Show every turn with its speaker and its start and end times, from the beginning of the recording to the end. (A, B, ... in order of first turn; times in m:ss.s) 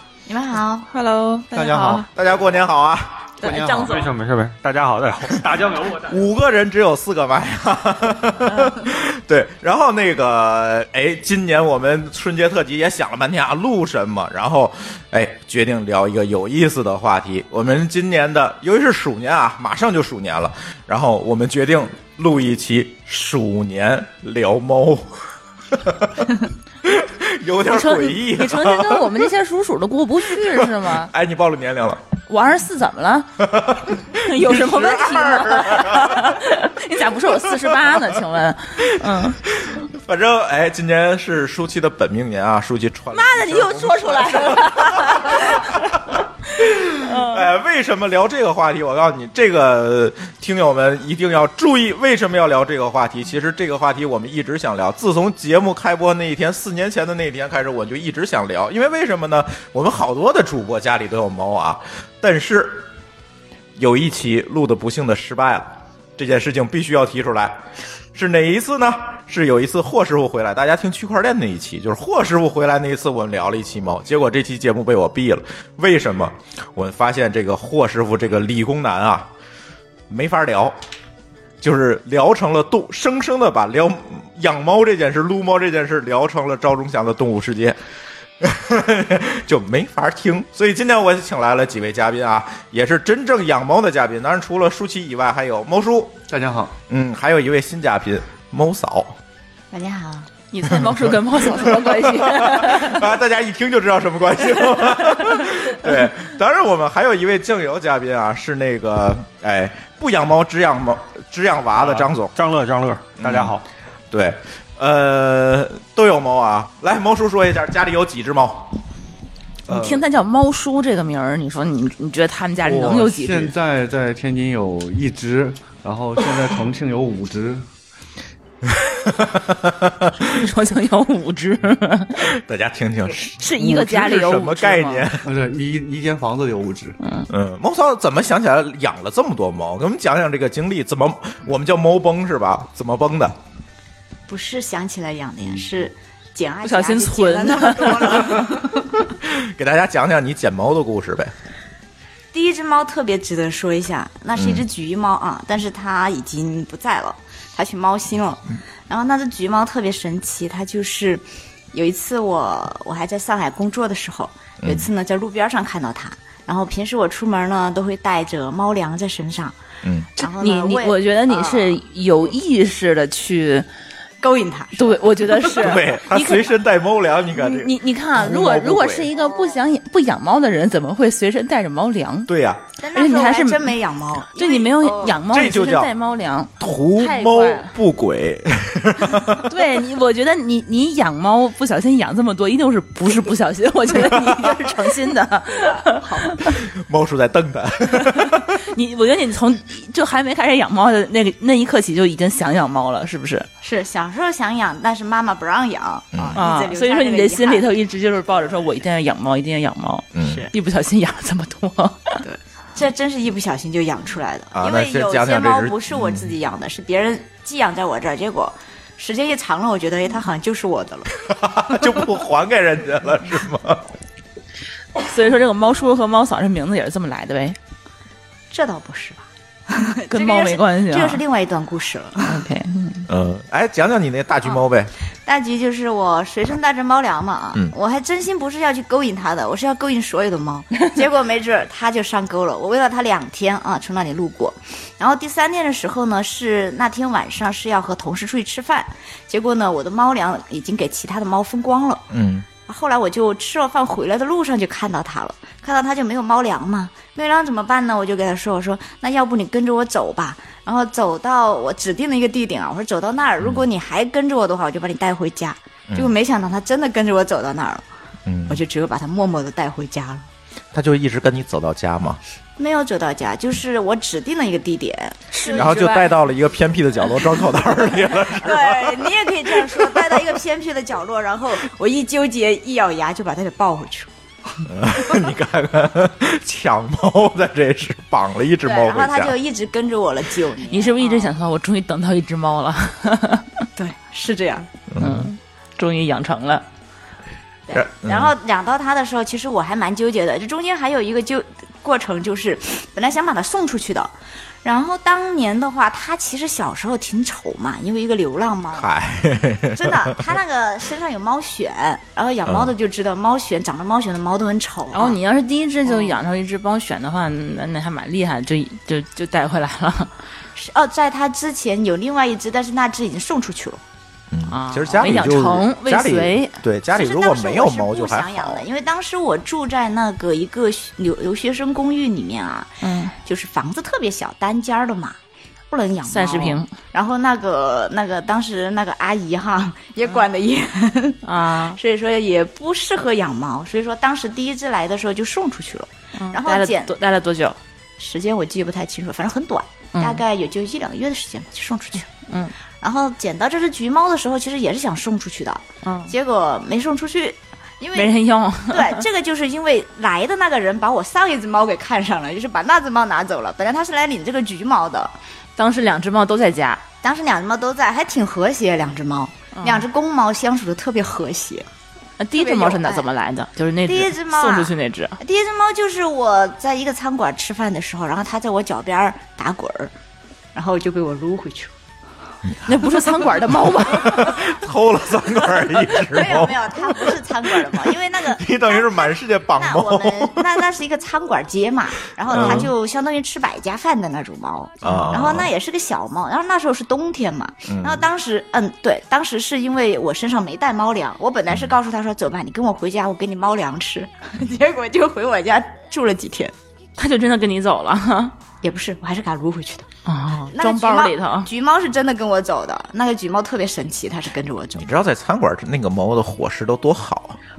0:00.3-0:00.9 A
0:00.9-0:02.1 B
0:01.5-0:02.1 C
0:02.1-0:03.2 D
0:03.4-0:04.1 B
0:03.4-0:04.0 C
0:03.8-0:06.1 E
0:05.3-0:25.1 D
0:08.5-0:08.8 B
0:25.7-0:29.2 D
0:27.7-0:31.1 B
0:30.3-0:32.0 D
0:32.3-0:33.3 B
0:33.4-0:36.4 D
0:34.1-0:39.4 B
0:37.3-0:38.1 D
0:38.8-1:02.8 D
0:43.1-0:46.0 B
0:46.8-0:47.5 B
1:03.8-1:07.6 D
1:08.1-1:19.3 D
1:20.1-1:20.7 D
1:21.6-1:27.8 D
1:28.4-1:36.2 D
1:36.3-1:36.7 C
1:36.9-1:39.2 D
1:39.7-1:40.3 A
1:40.5-1:43.1 B
1:40.6-1:52.3 D
1:45.4-1:46.0 B
1:51.8-1:53.6 E
1:53.2-1:53.6 D
1:54.1-1:58.7 D
1:59.7-2:03.5 B
1:59.7-2:00.0 C
2:02.6-2:07.6 C
2:08.7-2:10.3 D
2:10.2-2:12.3 B
2:12.2-2:15.3 D
2:13.4-2:15.1 B
2:15.2-2:17.0 C
2:17.0-2:17.3 B
2:17.3-2:23.4 D
2:24.3-2:28.9 A
2:26.6-2:28.5 B
2:29.2-2:31.3 D
2:32.3-2:49.6 A
2:34.3-2:34.6 D
2:44.6-2:44.9 D
2:49.8-2:50.1 D
2:50.2-2:51.8 A
2:50.2-2:53.7 B
2:54.2-2:55.6 A
2:54.8-2:56.5 B
2:55.5-2:59.1 D
2:57.3-3:02.3 B
3:02.3-3:02.6 D
3:02.8-3:05.2 A
3:02.9-3:03.8 B
3:04.3-3:07.7 B
3:05.2-3:05.9 D
3:06.6-3:09.5 D
3:09.4-3:16.6 B
3:14.1-3:14.4 D
3:15.5-3:16.4 A
3:16.4-3:18.6 D
3:17.9-3:23.5 B
3:23.6-3:27.7 A
3:26.1-3:26.4 D
3:26.4-3:32.2 B
3:30.1-3:30.5 D
3:30.2-3:30.5 A
3:32.2-3:42.1 A
3:34.5-3:36.3 D
3:41.2-3:43.9 D
3:45.0-3:47.6 B
3:48.5-3:52.4 A
3:50.1-3:51.2 B
3:52.3-3:53.1 B
3:53.1-3:54.9 D
3:55.2-4:12.0 A
4:12.1-4:12.5 D
4:12.7-4:27.8 A
4:28.2-4:28.6 D
4:28.5-4:30.3 A
4:30.7-4:32.2 D
4:32.6-4:35.8 A
4:35.3-4:36.2 B
4:35.5-4:40.3 D
4:38.2-4:44.7 A
4:44.6-4:49.3 D
4:48.6-4:51.3 A
4:50.7-4:53.5 B
4:53.8-4:54.7 A
4:54.9-4:55.3 D
4:55.0-4:56.6 B
4:57.7-5:08.9 A
4:57.7-4:58.3 D
5:08.7-5:10.3 D
5:09.7-5:15.2 A
5:14.9-5:20.1 B
5:15.8-5:16.2 A
5:20.5-5:23.8 A
5:24.3-5:28.6 D
5:24.5-5:26.6 B
5:26.9-5:35.2 A
5:32.8-5:33.1 B
5:35.7-5:47.0 A
5:36.1-5:36.7 B
5:41.2-5:41.8 B
5:46.2-5:47.6 B
5:48.0-5:52.1 A
5:49.9-5:50.2 B
5:52.3-5:52.5 B
5:52.8-5:58.1 A
5:55.8-5:56.1 B
5:57.9-5:59.0 B
5:58.7-6:05.1 A
6:05.6-6:06.8 B
6:07.0-6:11.7 A
6:09.5-6:09.8 B
6:12.2-6:15.2 B
6:12.3-6:13.1 A
6:13.8-6:19.9 A
6:20.5-6:21.7 A
6:22.6-6:24.5 B
6:24.0-6:26.9 D
6:25.9-6:46.5 A
6:27.7-6:30.6 D
6:32.3-6:32.7 D
6:34.8-6:35.5 D
6:37.7-6:38.0 D
6:47.0-6:48.3 B
6:48.6-6:49.9 A
6:50.0-6:51.5 B
6:50.5-6:54.9 A
6:54.8-6:57.4 D